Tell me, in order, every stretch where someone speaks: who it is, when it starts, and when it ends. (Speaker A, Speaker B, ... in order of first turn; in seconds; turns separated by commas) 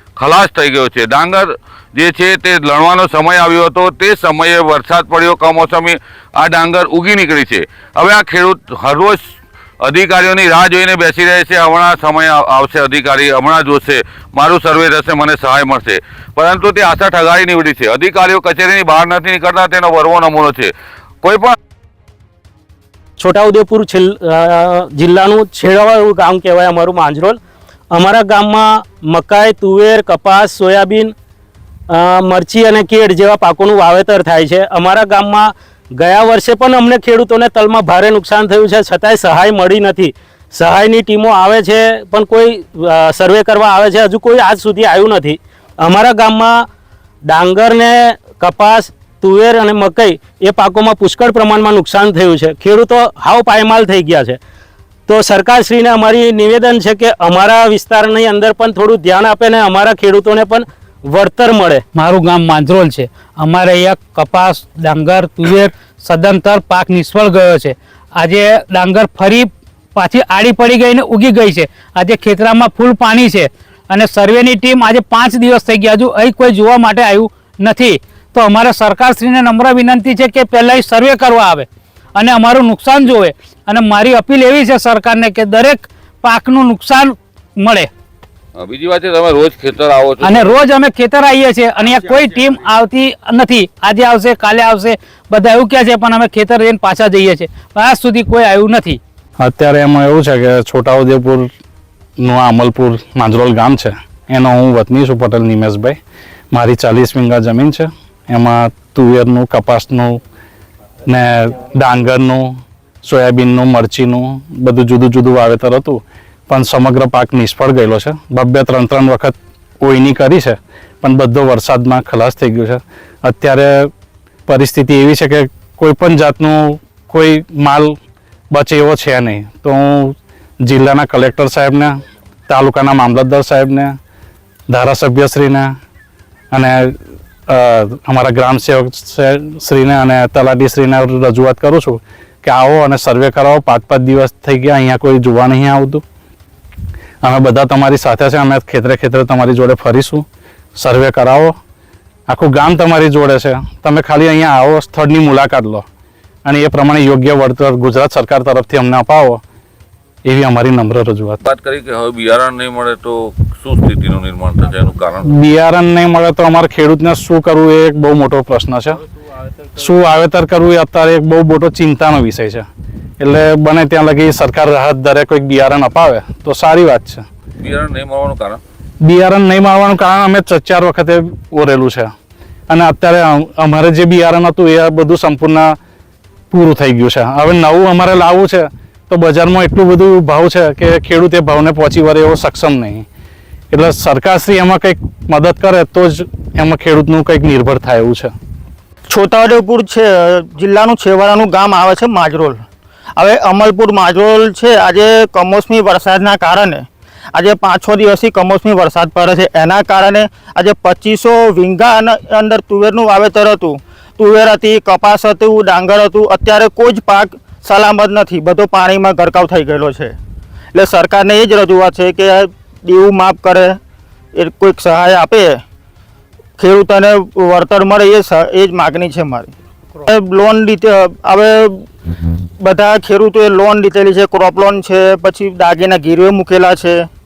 Speaker A: 0.2-9.2, Speaker A: 9.8-21.6, Speaker B: 23.2-27.4, Speaker B: 27.9-31.1, Speaker B: 31.9-46.7, Speaker B: 47.3-54.4, Speaker B: 55.1-61.9, Speaker C: 61.9-87.9, Speaker A: 88.6-90.7, Speaker C: 90.2-99.0, Speaker D: 99.4-101.5, Speaker D: 102.2-106.0, Speaker D: 106.5-110.2, Speaker D: 111.1-123.9, Speaker D: 124.5-128.0, Speaker D: 128.5-132.0, Speaker D: 132.5-134.0, Speaker D: 134.7-135.7, Speaker D: 136.5-146.0, Speaker D: 147.2-150.3, Speaker D: 150.8-151.6, Speaker D: 152.3-155.8, Speaker D: 156.4-159.4, Speaker D: 160.2-161.4, Speaker A: 161.4-165.3, Speaker D: 165.3-169.0, Speaker D: 169.8-172.7, Speaker D: 173.2-177.3, Speaker A: 177.6-178.6, Speaker D: 179.0-182.1, Speaker D: 182.7-185.8, Speaker D: 186.5-193.1, Speaker D: 193.7-198.3, Speaker E: 199.1-202.6, Speaker E: 203.2-220.2, Speaker E: 220.7-223.8, Speaker E: 224.3-225.6, Speaker E: 226.6-229.5, Speaker E: 230.1-231.8, Speaker E: 232.6-237.1